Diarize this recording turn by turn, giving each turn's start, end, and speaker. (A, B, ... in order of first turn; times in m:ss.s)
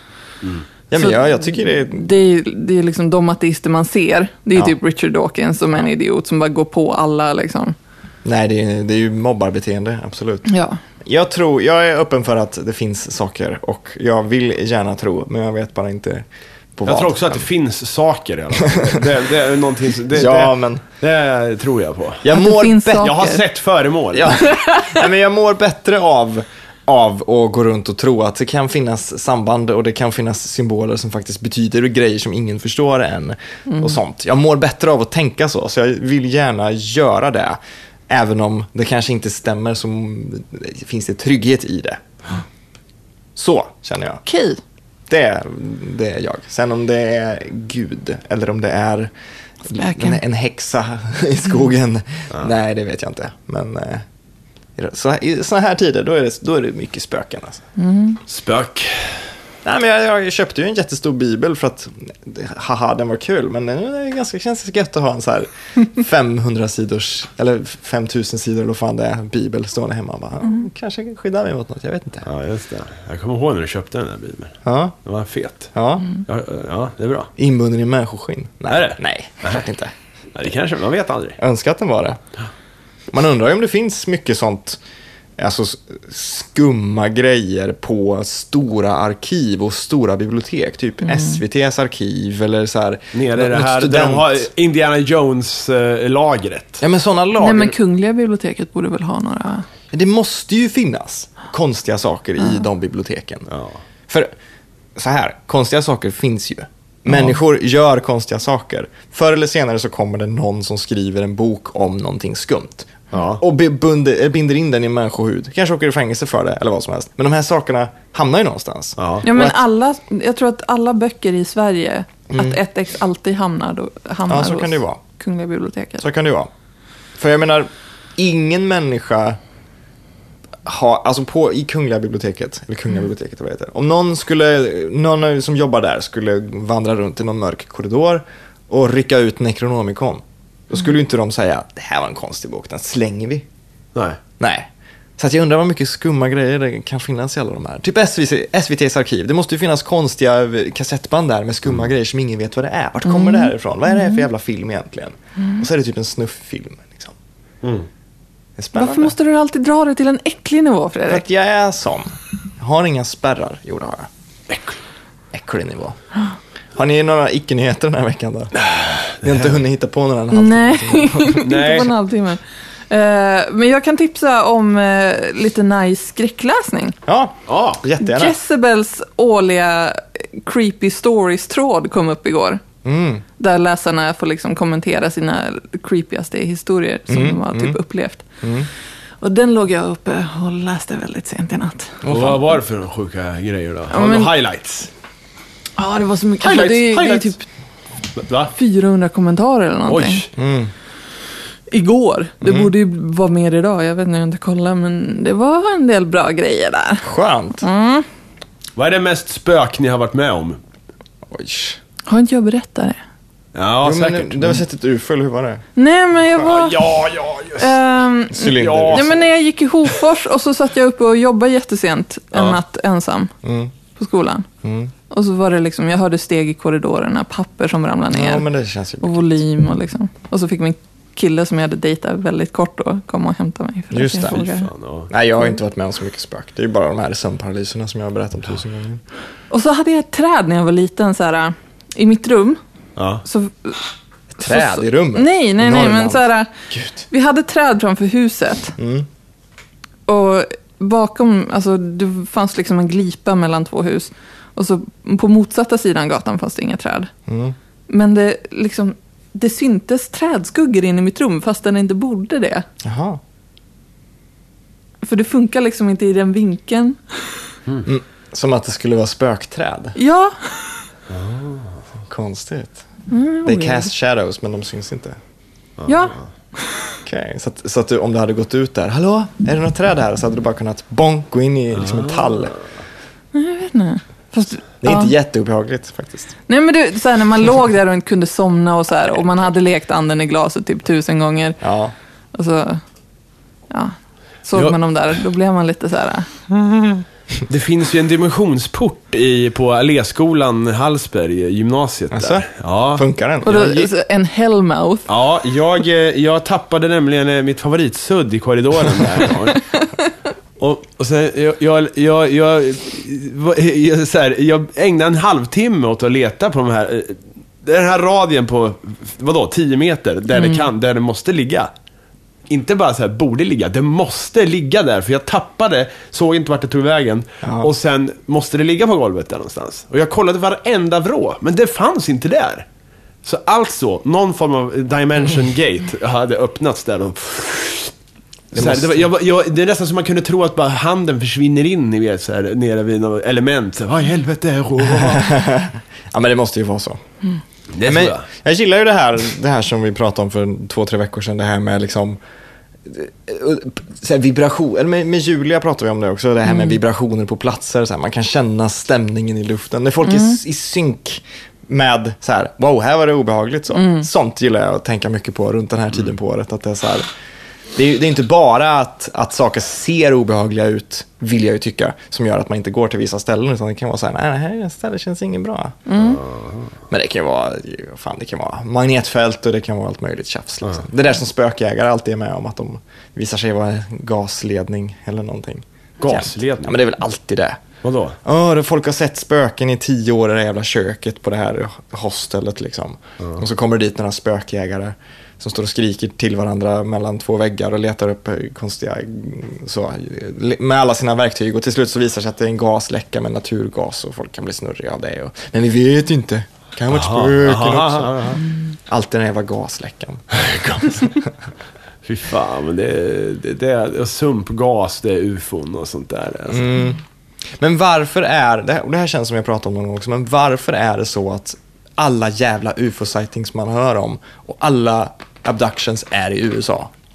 0:00.9-0:02.1 A
0:01.0-0:07.8 B
0:08.2-0:10.5 A
0:10.5-0:10.8 B
0:11.0-0:16.2 A
0:16.8-0:17.4 A
0:16.9-0:22.3 C
0:18.7-0:19.0 A
0:20.1-0:20.8 A
0:22.2-0:23.2 A
0:22.3-0:23.4 B
0:23.0-0:24.5 C
0:24.1-0:37.6 A
0:24.5-0:25.0 B
0:33.7-0:34.0 B
0:38.1-0:42.0 A
0:43.4-0:44.2 A
0:44.3-0:44.6 B
0:45.1-0:49.1 A
0:49.6-0:54.0 A
0:49.8-0:50.2 B
0:54.8-0:57.6 A
0:57.8-0:58.2 B
0:58.3-0:59.2 C
0:59.6-1:12.3 A
1:12.3-1:15.7 C
1:14.6-1:15.0 A
1:15.7-1:16.1 A
1:16.2-1:17.3 C
1:17.4-1:19.9 A
1:18.7-1:19.6 C
1:20.4-1:21.4 C
1:21.4-1:22.2 A
1:23.1-1:24.8 A
1:25.4-1:34.5 A
1:31.0-1:31.4 B
1:33.1-1:36.8 C
1:36.8-1:37.8 A
1:37.4-1:39.7 B
1:39.9-1:43.5 A
1:43.5-1:43.8 C
1:45.0-1:59.6 A
1:53.1-1:53.4 C
1:59.0-1:59.3 C
1:59.2-2:06.0 B
2:02.3-2:02.6 A
2:04.3-2:05.0 A
2:06.0-2:06.5 A
2:07.2-2:09.4 A
2:10.6-2:23.5 A
2:24.4-2:37.2 A
2:33.1-2:34.2 B
2:38.6-2:39.1 A
2:38.8-2:41.2 B
2:41.1-2:44.1 A
2:44.5-2:44.8 C
2:45.3-2:46.0 A
2:46.8-2:48.5 A
2:48.6-2:49.4 C
2:49.2-2:51.8 A
2:50.3-2:57.0 B
2:51.4-2:51.9 C
2:57.1-2:58.4 A
2:57.5-2:57.8 C
2:58.0-3:02.6 B
3:02.8-3:03.2 A
3:03.4-3:08.2 B
3:07.1-3:07.8 A
3:08.4-3:08.7 A
3:09.2-3:12.1 B
3:12.0-3:12.4 A
3:12.1-3:14.9 C
3:13.9-3:14.3 B
3:15.8-3:17.4 B
3:16.4-3:17.3 C
3:18.2-3:18.5 C
3:18.6-3:20.2 B
3:19.9-3:20.3 C
3:20.4-3:20.7 A
3:21.7-3:27.1 B
3:22.4-3:22.7 A
3:27.0-3:27.6 A
3:27.6-3:28.1 B
3:28.8-3:30.6 C
3:31.3-3:31.8 A
3:32.1-3:33.0 B
3:33.6-3:34.6 C
3:33.8-3:35.6 A
3:35.8-3:36.8 B
3:36.4-3:37.8 C
3:37.6-3:43.3 B
3:38.3-3:39.1 A
3:38.5-3:39.2 C
3:42.3-3:42.6 C
3:43.4-3:43.7 A
3:44.0-3:44.5 B
3:44.6-3:44.9 A
3:45.1-3:48.5 B
3:48.1-3:49.4 A
3:49.0-3:54.7 B
3:53.9-3:54.4 A
3:54.3-3:55.1 C
3:55.1-3:59.0 A
3:59.5-4:02.6 B
4:03.0-4:03.2 C
4:03.2-4:03.8 B
4:04.4-4:07.0 A
4:04.4-4:06.5 B
4:07.1-4:08.8 B
4:08.8-4:09.1 A
4:10.1-4:17.1 B
4:17.3-4:17.6 A
4:17.9-4:22.7 B
4:22.8-4:23.2 A
4:25.0-4:27.0 B
4:27.8-4:30.0 A
4:30.0-4:30.8 B
4:31.1-4:31.7 C
4:32.1-4:32.8 A
4:33.1-4:33.9 B
4:33.4-4:35.2 A
4:35.8-4:36.2 C
4:35.9-4:36.2 B
4:37.0-4:42.6 A
4:41.9-4:42.5 C
4:43.3-4:45.1 B
4:44.8-4:46.3 A
4:46.5-4:51.6 B
4:51.6-4:51.9 A
4:52.3-4:52.8 B
4:53.7-4:57.0 B
4:57.5-5:03.0 C
5:02.1-5:03.9 A
5:03.4-5:05.1 B
5:05.1-5:09.6 C
5:10.6-5:21.7 C
5:20.4-5:20.6 B
5:22.5-5:32.7 C
5:27.4-5:27.7 A
5:33.2-5:37.9 C
5:38.5-5:39.1 A
5:38.5-5:45.3 C
5:45.0-5:47.0 A
5:47.7-5:48.2 C
5:47.8-5:52.2 A
5:52.8-6:07.1 A
5:56.5-5:56.8 B
6:00.0-6:00.4 B
6:03.7-6:04.1 B
6:07.8-6:15.9 A
6:15.9-6:16.2 B
6:16.2-6:16.7 C
6:16.9-6:27.6 A
6:26.0-6:26.8 C
6:27.8-6:28.2 C
6:28.2-6:51.3 A
6:46.9-6:48.4 C
6:50.3-6:51.1 C
6:52.0-6:56.7 C
6:56.5-6:57.0 A
6:57.6-7:06.9 A